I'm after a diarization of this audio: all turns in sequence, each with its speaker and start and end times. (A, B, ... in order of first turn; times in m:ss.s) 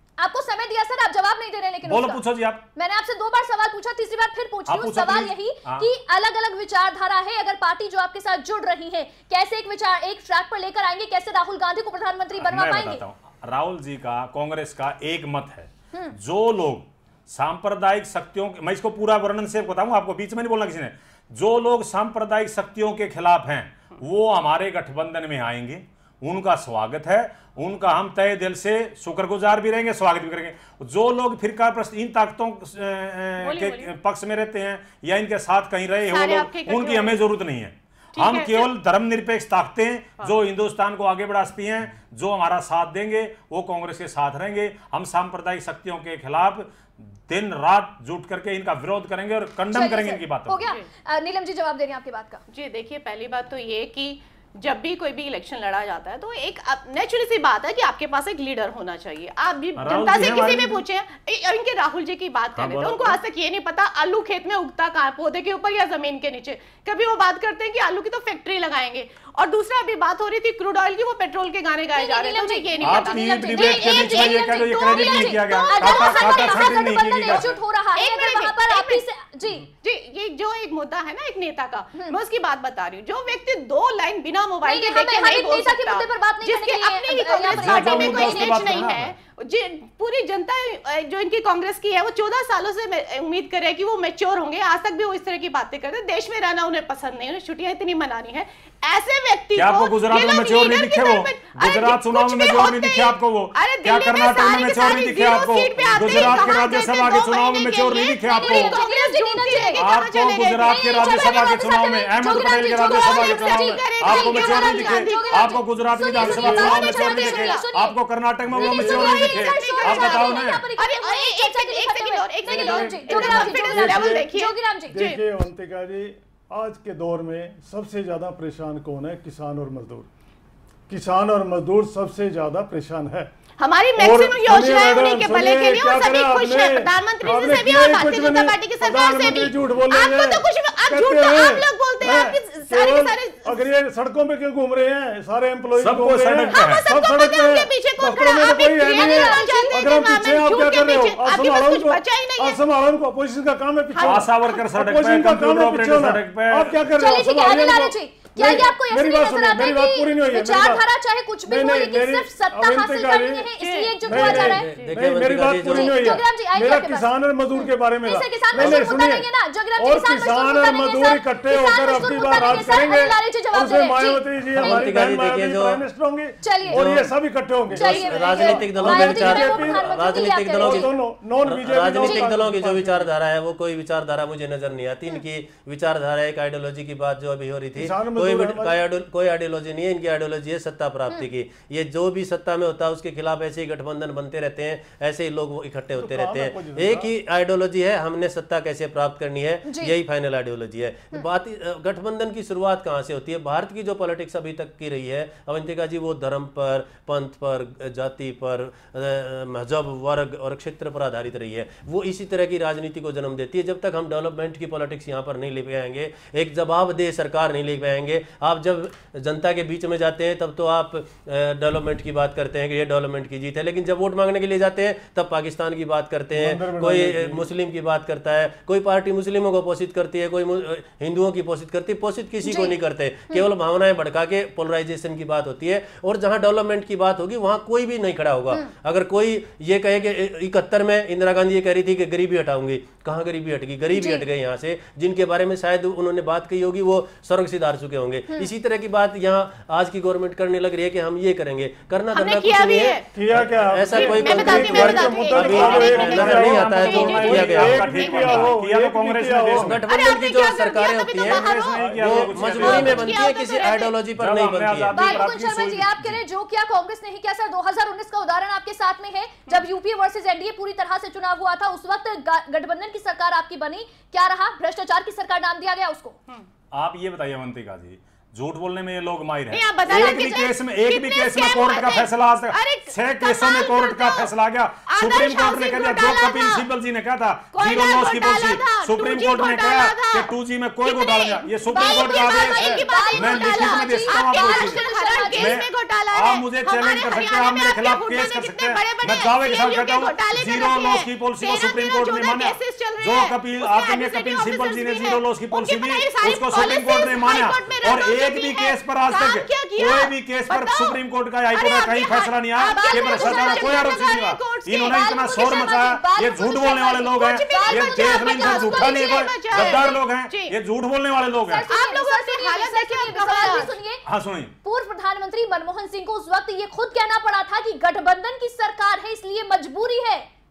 0:00.2-0:02.2 A
0:01.8-0:02.6 B
0:02.8-0:13.0 A
0:04.7-0:05.9 B
0:12.4-0:50.6 B
0:33.4-0:33.9 C
0:36.1-0:37.2 C
0:38.2-0:38.7 C
0:49.7-0:52.4 A
0:52.5-1:16.6 C
0:59.8-1:00.8 B
1:02.6-1:03.2 B
1:11.9-1:19.7 A
1:12.8-1:17.6 B
1:17.3-1:19.0 C
1:19.8-1:55.6 C
1:24.6-1:29.0 A
1:27.5-1:29.2 B
1:39.6-1:48.8 B
1:48.3-1:49.9 A
1:49.5-2:00.7 B
1:50.6-1:58.0 A
1:56.2-1:57.6 C
1:56.2-1:56.8 D
1:58.5-1:59.2 D
1:58.6-2:05.2 C
1:58.7-2:05.1 A
2:02.5-2:04.3 D
2:04.9-2:10.1 D
2:10.9-2:13.3 D
2:13.6-2:23.6 C
2:14.0-2:40.8 D
2:25.8-2:26.8 B
2:26.5-2:32.6 C
2:28.8-2:29.8 A
2:33.9-2:34.6 C
2:34.0-2:36.8 B
2:37.0-2:44.7 A
2:41.4-2:43.5 D
2:43.6-2:44.9 C
2:44.0-3:03.1 D
2:44.3-2:46.1 E
2:45.6-2:47.2 A
2:48.0-2:54.3 A
2:54.6-2:55.8 E
2:56.4-2:56.8 A
2:56.7-2:57.2 E
2:57.7-4:18.0 E
2:57.7-3:00.9 A
3:07.8-3:08.8 D
3:16.0-3:17.1 D
3:19.7-3:20.0 A
3:46.3-3:47.5 D
3:52.4-3:52.8 A
4:03.9-4:04.3 A
4:12.1-4:13.1 C
4:13.1-4:19.8 D
4:13.9-4:18.4 C
4:15.3-4:19.8 B
4:19.5-4:25.1 E
4:19.9-4:24.0 C
4:21.2-4:23.2 B
4:21.8-4:22.8 D
4:24.2-4:26.2 B
4:25.0-4:36.2 A
4:36.7-4:54.8 B
4:39.5-4:44.3 C
4:44.9-4:46.6 C
4:47.6-4:50.3 C
4:50.8-5:11.0 C
4:51.7-4:55.5 A
4:55.4-5:21.7 B
5:11.5-5:15.1 C
5:12.6-5:13.8 A
5:14.9-5:19.0 A
5:16.8-5:20.6 C
5:21.5-5:24.0 A
5:21.7-5:23.8 C
5:24.0-5:24.5 B
5:24.6-5:30.3 A